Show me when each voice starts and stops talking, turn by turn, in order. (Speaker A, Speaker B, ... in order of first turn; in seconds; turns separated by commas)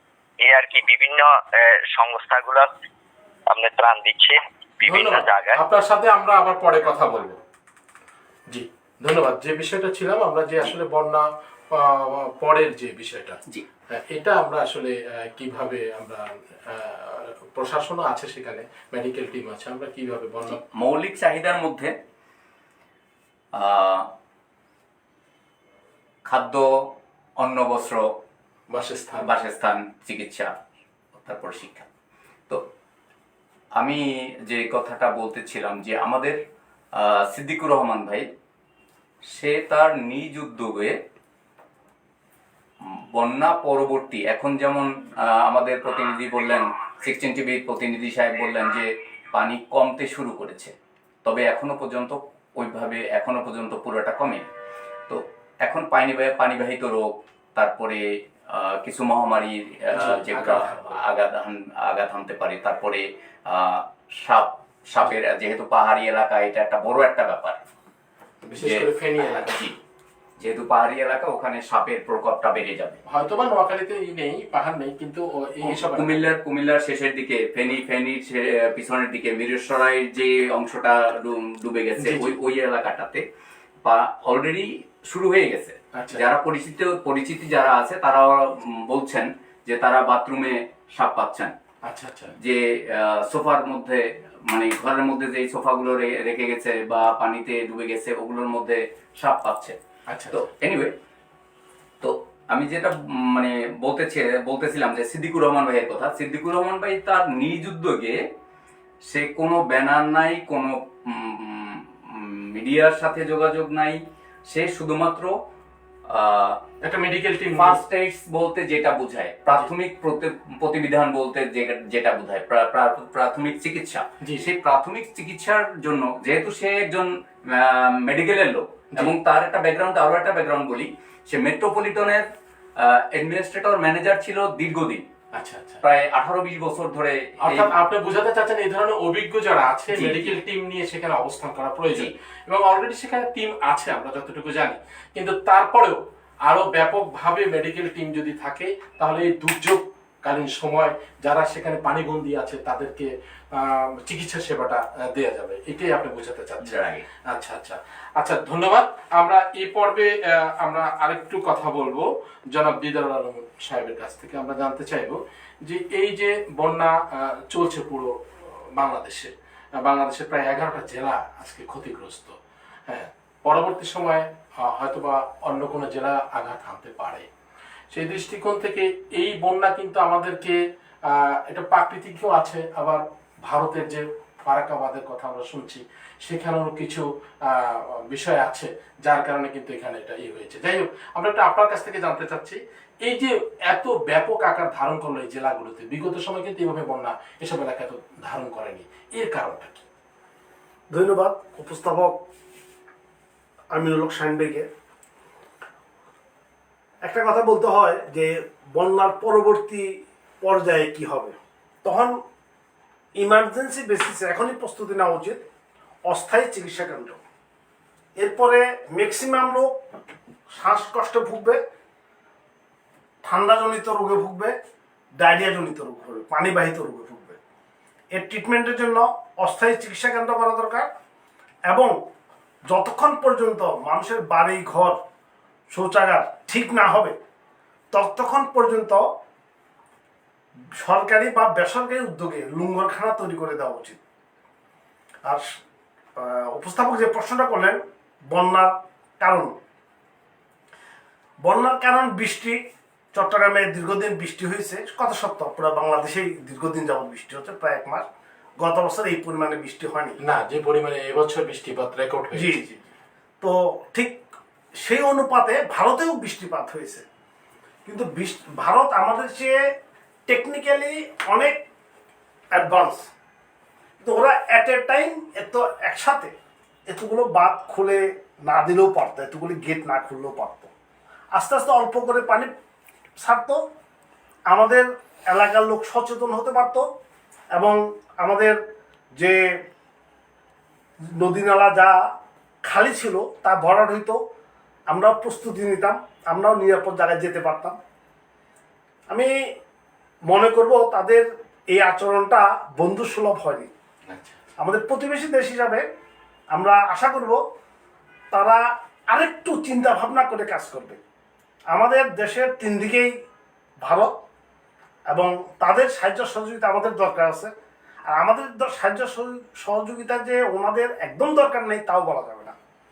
Speaker A: 0.4-2.7, Speaker A: 3.5-5.6, Speaker B: 4.8-7.4, Speaker B: 8.5-13.4, Speaker B: 13.9-20.6, Speaker C: 20.5-21.9, Speaker C: 23.5-24.1, Speaker C: 26.2-28.1, Speaker B: 28.7-29.3, Speaker C: 29.2-30.5, Speaker C: 31.1-31.9, Speaker C: 33.8-36.4, Speaker C: 37.0-38.3, Speaker C: 39.3-41.0, Speaker C: 43.1-50.7, Speaker C: 51.2-54.4, Speaker C: 55.1-67.6, Speaker B: 59.9-61.0, Speaker B: 68.4-69.7, Speaker C: 68.6-69.8, Speaker C: 70.4-73.0, Speaker B: 73.1-76.3, Speaker C: 75.6-83.2, Speaker B: 82.0-82.3, Speaker C: 83.8-91.5, Speaker B: 85.9-86.2, Speaker B: 91.8-92.3, Speaker C: 92.4-99.8, Speaker B: 100.1-100.5, Speaker C: 100.3-100.9, Speaker C: 102.0-108.2, Speaker C: 109.0-115.4, Speaker C: 116.1-116.6, Speaker B: 116.8-117.8, Speaker C: 117.6-132.3, Speaker B: 124.2-124.5, Speaker C: 132.8-135.1, Speaker B: 135.3-135.8, Speaker C: 135.8-137.7, Speaker B: 137.4-172.4, Speaker C: 139.9-140.4, Speaker C: 156.6-157.1, Speaker B: 172.9-177.3, Speaker B: 177.9-199.8, Speaker D: 200.9-202.2, Speaker D: 203.7-204.7, Speaker D: 207.0-212.2, Speaker D: 213.2-215.4, Speaker D: 216.1-217.2, Speaker D: 218.2-219.8, Speaker D: 220.5-221.6, Speaker D: 223.2-224.5, Speaker D: 225.2-227.4, Speaker D: 228.1-230.9, Speaker D: 231.7-231.9, Speaker D: 232.7-235.0, Speaker D: 235.7-237.2, Speaker D: 237.9-239.0, Speaker D: 240.8-244.0, Speaker D: 246.2-247.8, Speaker D: 248.3-249.6, Speaker D: 251.4-252.6, Speaker D: 253.1-258.1, Speaker D: 258.6-260.2, Speaker B: 260.2-262.8, Speaker D: 262.3-262.6, Speaker D: 263.4-264.3, Speaker D: 264.8-267.1, Speaker D: 267.9-269.6, Speaker D: 270.3-271.6, Speaker D: 272.6-273.1, Speaker D: 274.0-276.3, Speaker D: 276.9-280.7, Speaker D: 281.3-282.5, Speaker D: 283.2-283.6, Speaker D: 284.5-286.9, Speaker D: 287.5-288.6, Speaker D: 291.2-292.0, Speaker D: 292.6-294.2, Speaker D: 294.9-297.8, Speaker D: 300.3-303.7, Speaker B: 304.1-304.4, Speaker D: 304.6-305.9, Speaker D: 306.5-307.4, Speaker D: 308.3-311.0, Speaker D: 311.7-313.1, Speaker D: 313.8-314.2, Speaker D: 315.1-317.5, Speaker D: 318.1-322.6